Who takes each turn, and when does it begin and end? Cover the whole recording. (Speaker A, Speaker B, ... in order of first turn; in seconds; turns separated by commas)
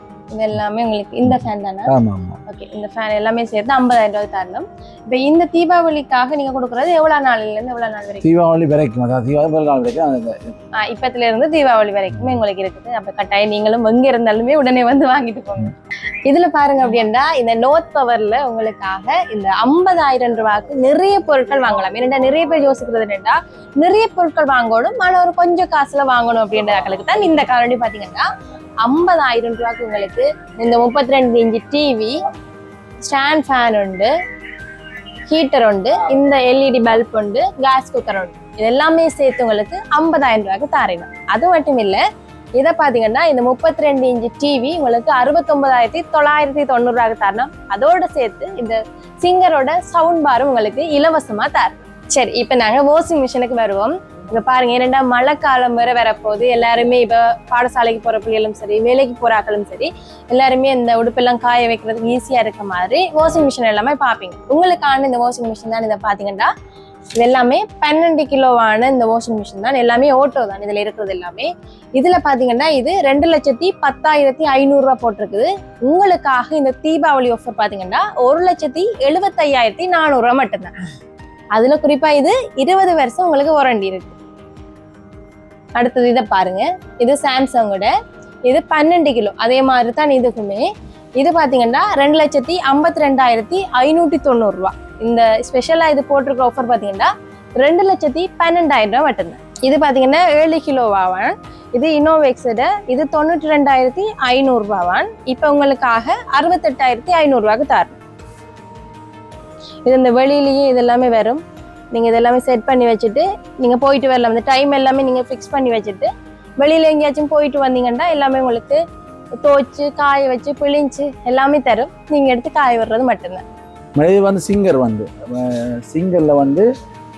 Speaker A: 0.3-1.9, Speaker B: 1.2-2.4, Speaker A: 2.5-8.3, Speaker B: 8.2-10.6, Speaker A: 10.8-28.3, Speaker A: 28.8-32.2, Speaker A: 33.0-34.1, Speaker A: 35.3-42.0, Speaker A: 42.6-66.5, Speaker A: 67.2-80.8, Speaker A: 81.5-84.2, Speaker A: 85.8-87.9, Speaker A: 88.5-90.7, Speaker A: 91.2-108.0, Speaker A: 109.8-116.1, Speaker A: 116.6-118.8, Speaker A: 119.4-123.4, Speaker B: 124.0-126.7